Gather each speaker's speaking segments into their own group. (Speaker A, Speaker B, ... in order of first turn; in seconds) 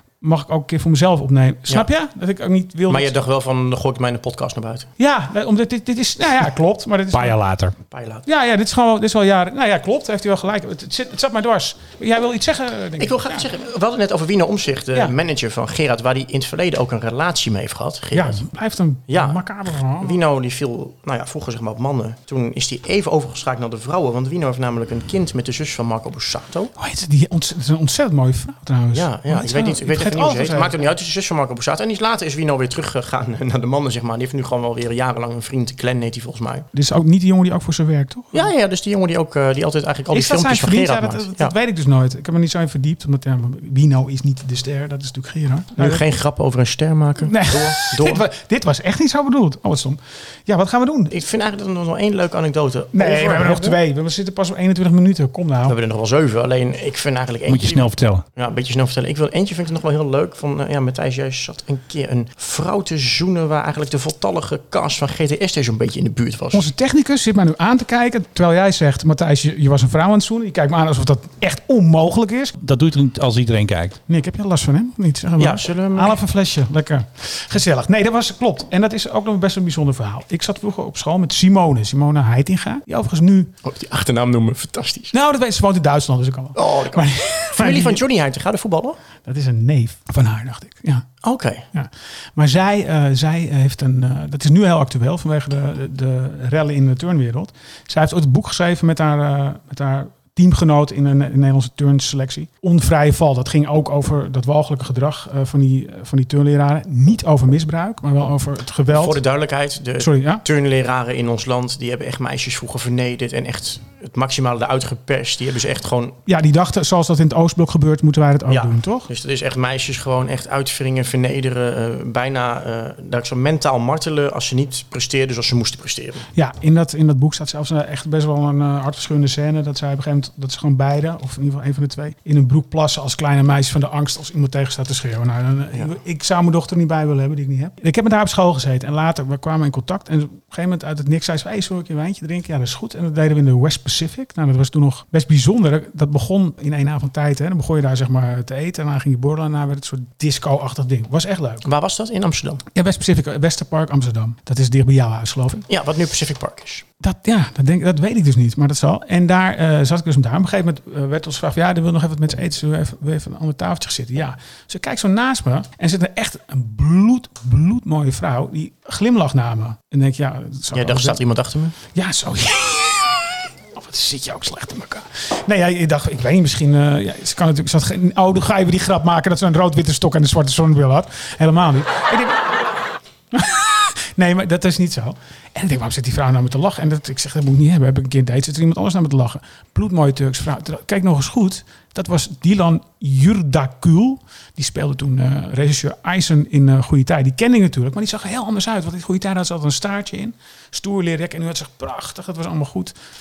Speaker A: 0.2-3.1, 5.0-7.4, 8.3-13.5, 18.1-20.2, 26.8-30.8, 36.7-38.5, 40.1-46.0, 47.2-51.1, 52.9-55.8, 66.5-72.6, 74.1-83.5, 85.1-88.0, 89.2-91.1, 91.7-109.2, 110.0-110.4, 116.3-119.1, 126.3-151.7, 152.7-155.7, 157.0-171.2, 171.9-182.5, 183.3-202.9
Speaker B: 2.9-4.9, 7.9-8.3, 13.0-18.4, 19.1-26.7, 28.9-36.7, 38.3-41.5, 45.8-48.2, 51.1-53.8, 55.7-66.7, 75.4-76.2, 83.6-85.1, 86.5-89.0, 91.2-91.7, 108.9-116.2, 118.5-126.3, 151.6-152.6, 155.7-156.8, 170.7-171.8
Speaker C: 7.1-7.8, 57.5-58.2, 72.6-74.0